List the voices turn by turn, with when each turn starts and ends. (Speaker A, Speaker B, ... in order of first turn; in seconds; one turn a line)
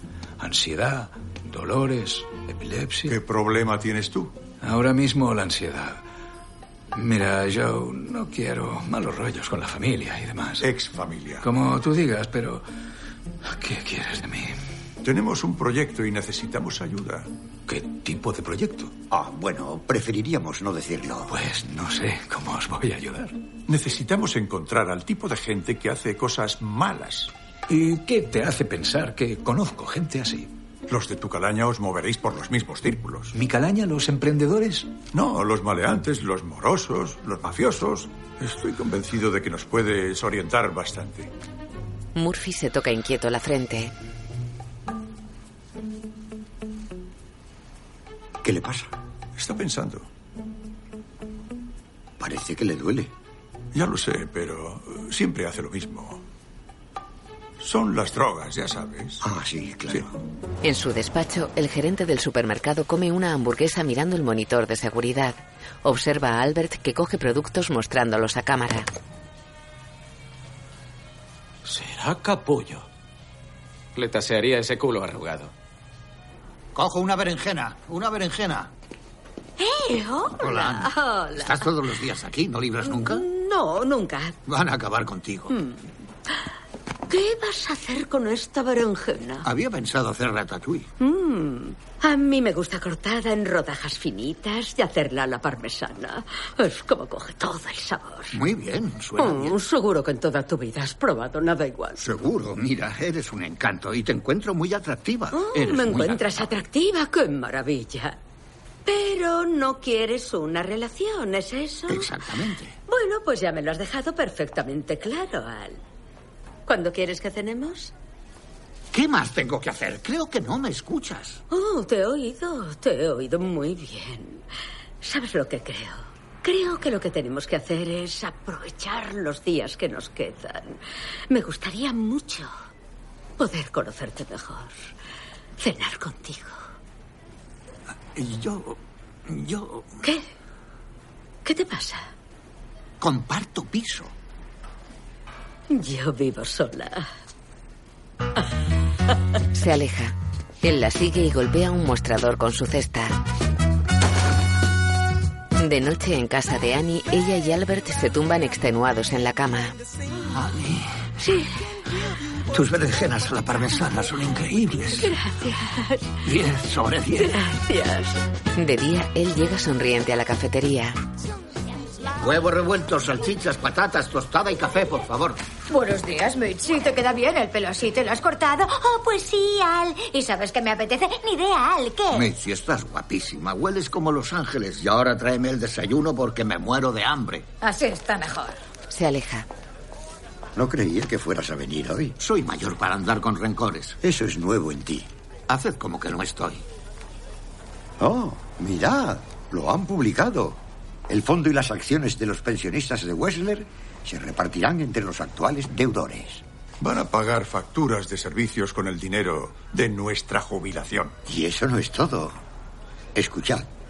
Speaker A: 0.4-3.1
Speaker B: 3.1-4.3
Speaker A: 4.6-6.0
Speaker A: 6.9-10.7
Speaker B: 10.6-11.5
Speaker A: 11.4-12.7
Speaker A: 13.4-14.6
Speaker B: 15.0-17.3
Speaker A: 17.7-18.9
Speaker C: 19.1-21.3
Speaker A: 21.3-23.4
Speaker B: 23.7-27.3
Speaker A: 27.7-30.5
Speaker B: 30.9-33.3
Speaker A: 33.3-34.9
Speaker B: 35.1-41.3
Speaker D: 42.1-43.9
Speaker C: 48.4-48.9
Speaker B: 49.4-50.1
Speaker C: 52.2-53.1
Speaker B: 53.7-56.2
Speaker B: 57.6-59.2
Speaker C: 59.2-60.1
Speaker D: 60.6-68.9
Speaker E: 71.7-72.8
Speaker E: 74.0-75.5
Speaker F: 76.8-78.7
Speaker G: 79.6-81.7
Speaker F: 80.4-83.2
Speaker G: 82.8-84.4
Speaker F: 84.5-85.5
Speaker G: 85.5-86.5
Speaker G: 87.1-89.5
Speaker F: 89.4-90.9
Speaker G: 91.0-98.4
Speaker F: 98.3-99.6
Speaker G: 99.2-102.0
Speaker F: 102.0-106.3
Speaker G: 105.3-108.2
Speaker G: 108.9-112.1
Speaker F: 111.9-112.7
Speaker G: 112.9-115.8
Speaker G: 116.7-117.9
Speaker F: 118.9-121.4
Speaker G: 121.5-124.5
Speaker G: 125.0-132.5
Speaker G: 133.4-134.9
Speaker G: 135.6-136.6
Speaker F: 138.2-140.0
Speaker G: 141.4-142.1
Speaker F: 143.0-144.1
Speaker G: 145.7-147.1
Speaker D: 149.5-153.2
Speaker D: 155.6-159.8
Speaker F: 160.3-160.9
Speaker G: 161.2-161.5
Speaker F: 162.5-165.1
Speaker G: 165.0-166.2
Speaker F: 166.2-167.4
Speaker G: 167.3-168.2
Speaker D: 168.6-171.0
Speaker F: 172.2-175.4
Speaker H: 175.7-182.2
Speaker F: 182.1-187.5
Speaker H: 187.6-188.6
Speaker D: 188.9-189.5
Speaker C: 190.6-192.2
Speaker F: 192.2-194.0
Speaker C: 194.0-195.1
Speaker F: 195.5-196.6
Speaker C: 198.0-206.4
Speaker B: 206.8-211.2
Speaker C: 211.3-212.4
Speaker C: 213.2-213.7